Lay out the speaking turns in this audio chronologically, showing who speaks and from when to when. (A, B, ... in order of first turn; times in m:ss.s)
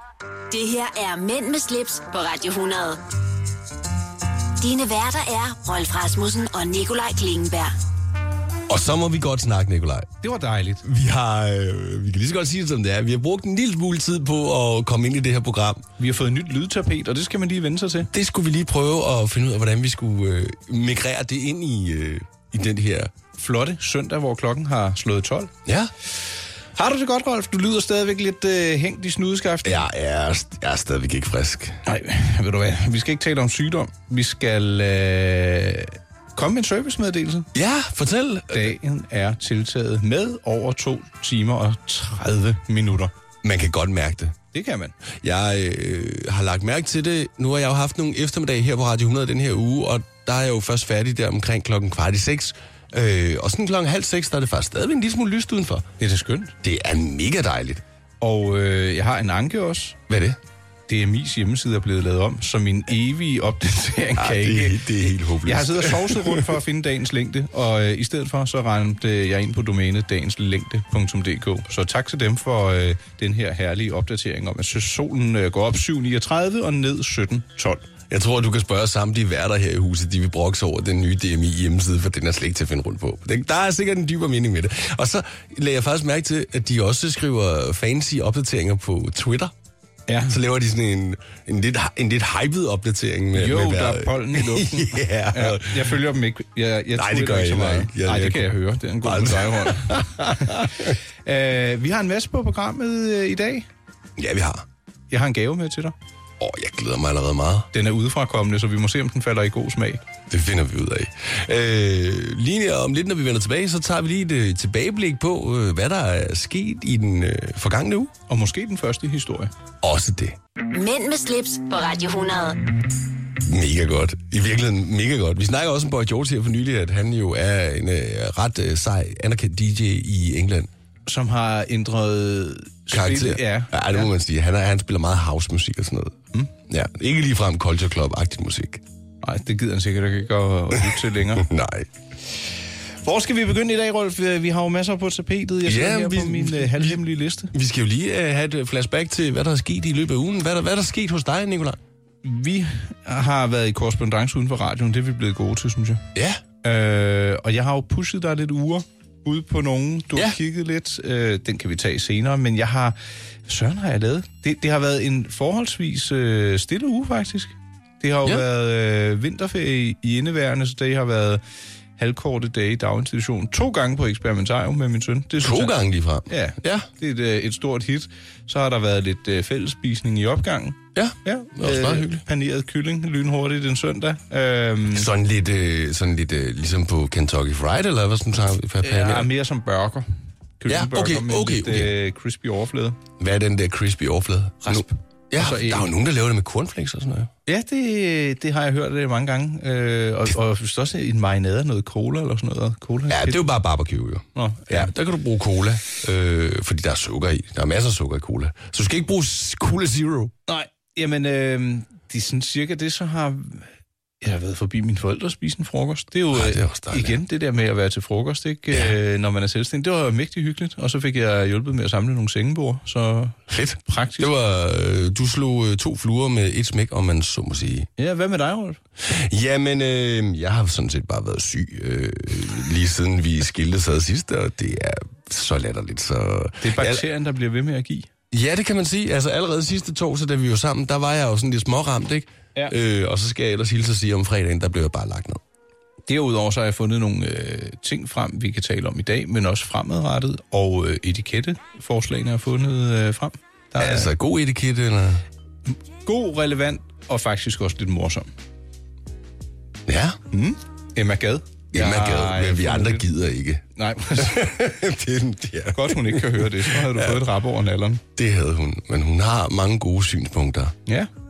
0:00.5-0:03.0 A
0:04.6-0:07.7 A
0:08.7-0:10.1 B
0:10.2-0:10.8 C
0:10.8-0:15.8 B
0:16.0-0:18.1 C
0:18.1-0:23.1 B
0:23.3-0:25.5 C
0:25.6-0:25.9 B
0:26.8-0:29.8 C
0:29.6-0:31.8 B
0:31.8-0:37.5 C
0:37.5-0:38.7 B
0:38.5-0:43.1 C
0:43.4-0:44.4 B
0:44.5-0:44.9 C
0:45.2-0:55.9 B
0:56.0-0:56.5 C
0:56.6-0:57.8 B
0:58.2-1:00.0 C
1:00.1-1:00.4 B
1:00.9-1:17.9 C
1:04.2-1:06.5 B
1:18.1-1:29.5 B
1:30.1-1:30.4 C
1:30.3-1:36.0 B
1:33.3-1:43.7 C
1:36.9-1:38.5 B
1:39.0-1:41.0 B
1:44.2-1:44.6 B
1:45.1-1:45.9 C
1:46.4-1:47.7 B
1:47.7-1:50.0 C
1:50.3-1:58.1 B
1:58.3-1:59.5 C
1:59.8-2:00.4 B
2:00.7-2:02.7 A
2:03.4-2:10.7 B
2:11.1-2:14.1 C
2:12.9-2:16.2 B
2:16.7-2:18.8 B
2:19.2-2:21.4 C
2:21.3-2:21.9 B
2:23.0-2:27.5 C
2:25.6-2:31.8 B
2:32.2-2:36.0 C
2:36.1-2:36.4 B
2:36.6-2:51.4 C
2:52.0-3:05.1 C
2:55.4-2:56.9 B
3:00.9-3:02.2 B
3:04.9-3:09.3 B
3:08.8-3:10.1 C
3:10.6-3:13.0 C
3:10.7-3:11.9 B
3:13.2-3:17.3 B
3:14.6-3:15.9 C
3:17.4-3:23.5 C
3:23.1-3:30.3 B
3:24.3-3:24.9 C
3:30.5-3:33.7 C
3:34.2-3:44.3 C
3:36.3-3:37.2 B
3:43.5-3:47.9 B
3:48.0-3:48.8 C
3:49.0-3:57.0 B
3:56.6-3:58.1 C
3:58.3-4:05.4 B
4:06.1-4:14.1 C
4:13.8-4:15.2 B
4:16.0-4:18.3 C
4:19.8-4:20.2 B
4:20.3-4:23.0 C
4:21.7-4:23.6 B
4:23.8-4:24.5 C
4:24.1-4:27.2 B
4:25.7-4:28.0 C
4:28.1-4:30.7 B